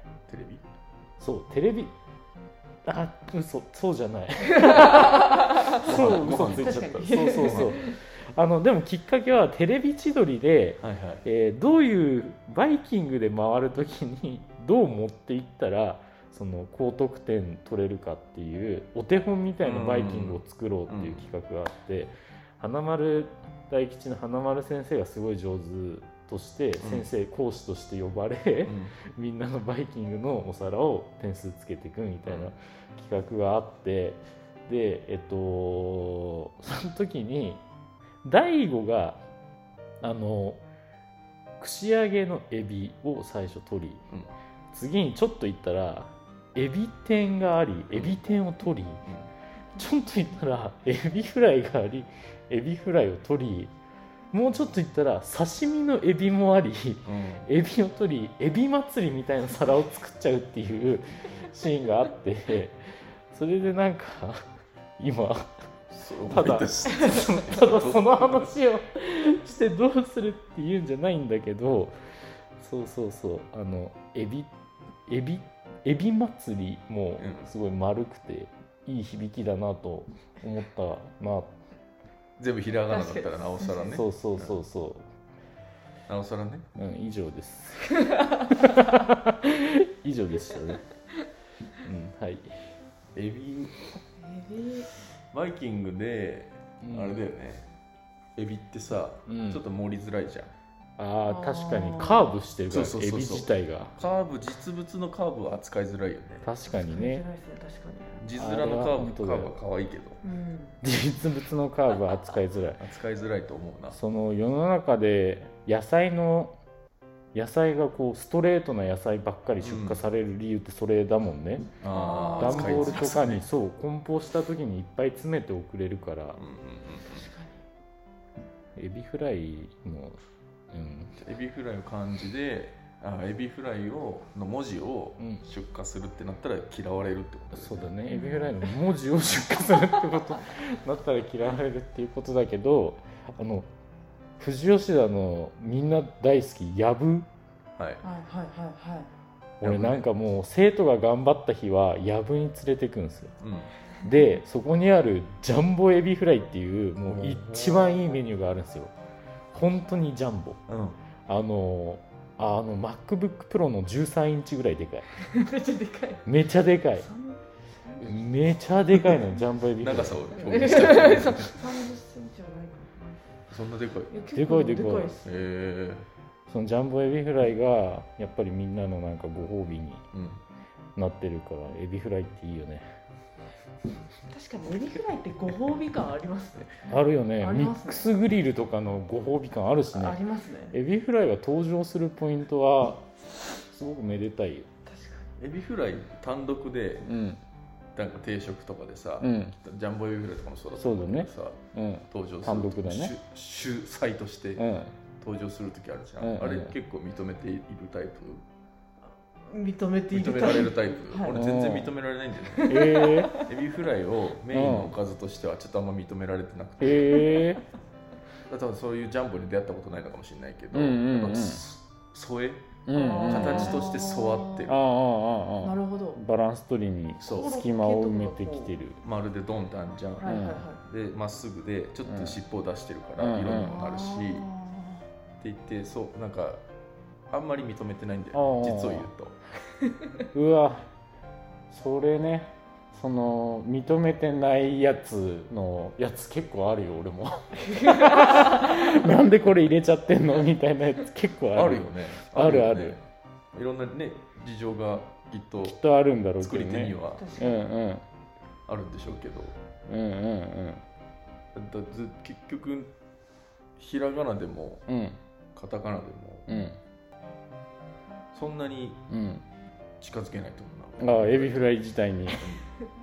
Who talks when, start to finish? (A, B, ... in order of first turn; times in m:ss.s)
0:00.3-0:00.6 A
0:01.2-0:01.9 B
0:02.8-0:37.6 B
0:04.5-0:05.9 C
0:05.8-0:07.7 A
0:06.4-0:08.0 C
0:10.8-0:11.2 A
0:19.6-0:21.3 A
0:26.8-0:27.1 A
0:28.7-0:29.0 A
0:32.3-0:32.5 A
0:38.2-0:39.2 B
0:40.0-0:40.6 B
0:41.6-0:44.0 B
0:44.7-0:49.1 B
0:49.8-0:53.7 B
0:54.3-1:04.4 B
0:57.1-0:57.5 A
1:05.0-1:05.6 B
1:05.9-1:08.5 A
1:06.3-1:12.0 B
1:12.6-1:14.5 B
1:15.1-1:21.5 B
1:17.2-1:17.5 A
1:22.4-1:24.6 A
1:22.9-1:24.0 C
1:23.9-1:25.0 B
1:26.1-1:26.7 A
1:26.8-1:30.9 B
1:31.8-1:32.5 B
1:33.2-1:33.8 A
1:33.9-1:34.9 C
1:35.3-1:37.6 A
1:36.8-1:37.2 B
1:38.4-1:40.5 A
1:39.3-1:39.6 B
1:41.0-1:44.0 B
1:41.2-1:42.4 C
1:42.7-1:46.5 A
1:46.4-1:47.2 B
1:46.7-1:48.2 C
1:48.2-1:50.2 A
1:48.4-1:49.5 B
1:50.2-1:50.8 C
1:50.8-1:52.8 B
1:52.8-1:54.0 A
1:53.9-1:56.6 B
1:57.3-2:01.7 B
1:59.6-2:00.0 A
2:01.8-2:03.4 A
2:01.9-2:03.1 C
2:02.4-2:06.4 B
2:06.4-2:07.3 A
2:07.1-2:07.6 C
2:08.8-2:10.2 B
2:10.7-2:11.2 B
2:11.2-2:17.9 A
2:15.2-2:15.4 B
2:17.5-2:23.7 B
2:18.1-2:18.8 C
2:19.7-2:20.2 C
2:24.4-2:27.3 B
2:27.8-2:28.0 A
2:28.0-2:29.1 C
2:29.6-2:30.1 A
2:29.6-2:33.3 B
2:33.4-2:33.7 A
2:34.0-2:38.9 B
2:37.0-2:38.2 A
2:39.5-2:40.6 B
2:40.7-2:41.0 A
2:41.3-2:45.2 B
2:45.2-2:46.3 C
2:46.3-2:47.1 B
2:46.9-2:48.0 C
2:48.0-2:51.6 A
2:48.0-2:50.9 B
2:50.4-2:53.4 C
2:53.5-2:54.1 A
2:54.1-2:55.3 C
2:54.4-2:55.2 B
2:55.2-2:56.1 A
2:56.5-3:00.0 B
3:00.1-3:00.4 A
3:01.0-3:02.9 B
3:04.3-3:08.1 C
3:06.9-3:10.2 B
3:09.9-3:10.8 C
3:10.7-3:14.7 B
3:14.9-3:15.3 C
3:15.4-3:17.1 A
3:17.0-3:17.4 B
3:18.0-3:21.6 A
3:19.2-3:19.6 B
3:20.8-3:23.2 B
3:22.1-3:24.7 A
3:24.6-3:25.0 B
3:25.2-3:28.4 A
3:26.2-3:26.7 B
3:29.5-3:31.4 C
3:30.1-3:37.3 A
3:31.3-3:31.9 B
3:32.5-3:33.5 C
3:32.7-3:33.4 B
3:34.5-3:34.9 B
3:36.8-3:37.6 B
3:38.5-3:44.8 A
3:40.7-3:41.6 B
3:42.9-3:43.8 B
3:42.9-3:44.7 C
3:44.7-3:49.0 B
3:45.6-3:46.2 C
3:47.2-3:48.8 C
3:49.0-3:54.5 A
3:50.2-3:50.8 C
3:50.3-3:50.6 B
3:52.1-3:52.4 B
3:53.2-3:53.8 B
3:53.6-3:55.0 C
3:55.4-3:56.6 A
3:57.3-3:59.4 A
3:58.3-3:59.1 B
4:00.3-4:00.8 B
4:01.7-4:13.0 B
4:07.6-4:09.0 C
4:11.5-4:13.0 A
4:13.5-4:15.8 A
4:15.6-4:18.0 B
4:16.4-4:17.3 A
4:17.1-4:17.7 C
4:18.7-4:19.6 A
4:19.9-4:20.8 B
4:21.5-4:22.9 A
4:23.8-4:24.8 A
4:24.9-4:25.2 B
4:25.6-4:26.5 A
4:26.5-4:26.8 B
4:28.3-4:29.0 A
4:29.1-4:29.4 B
4:30.0-4:32.6 A
4:31.0-4:32.5 B